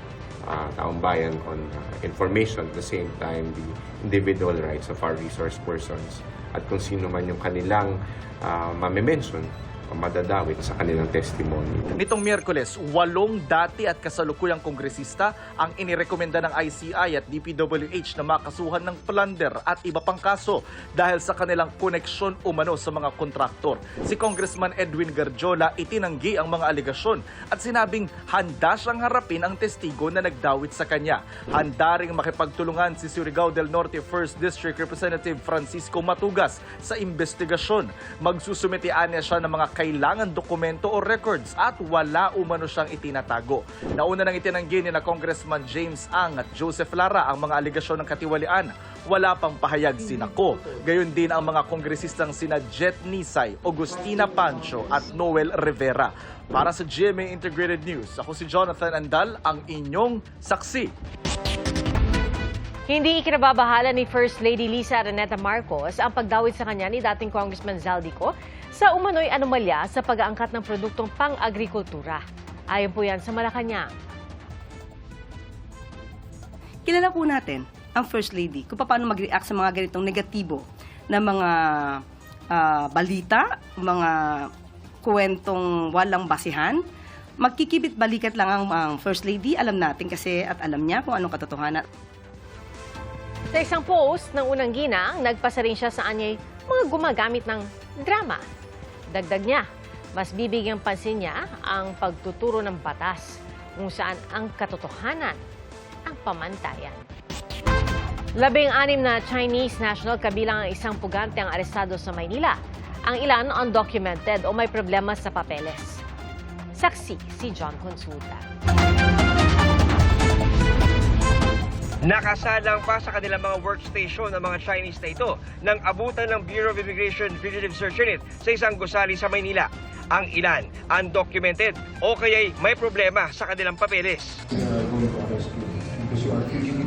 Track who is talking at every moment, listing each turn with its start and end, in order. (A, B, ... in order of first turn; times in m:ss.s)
0:00.4-0:11.9 A
0:12.0-1:00.9 B
1:02.9-1:13.9 C
1:16.9-1:24.5 D
1:25.0-1:26.8 D
1:27.4-1:31.8 D
1:33.5-1:38.4 C
1:39.1-1:45.4 C
1:46.1-1:47.0 C
1:48.4-1:56.0 C
1:56.8-1:58.4 C
2:02.0-2:14.4 E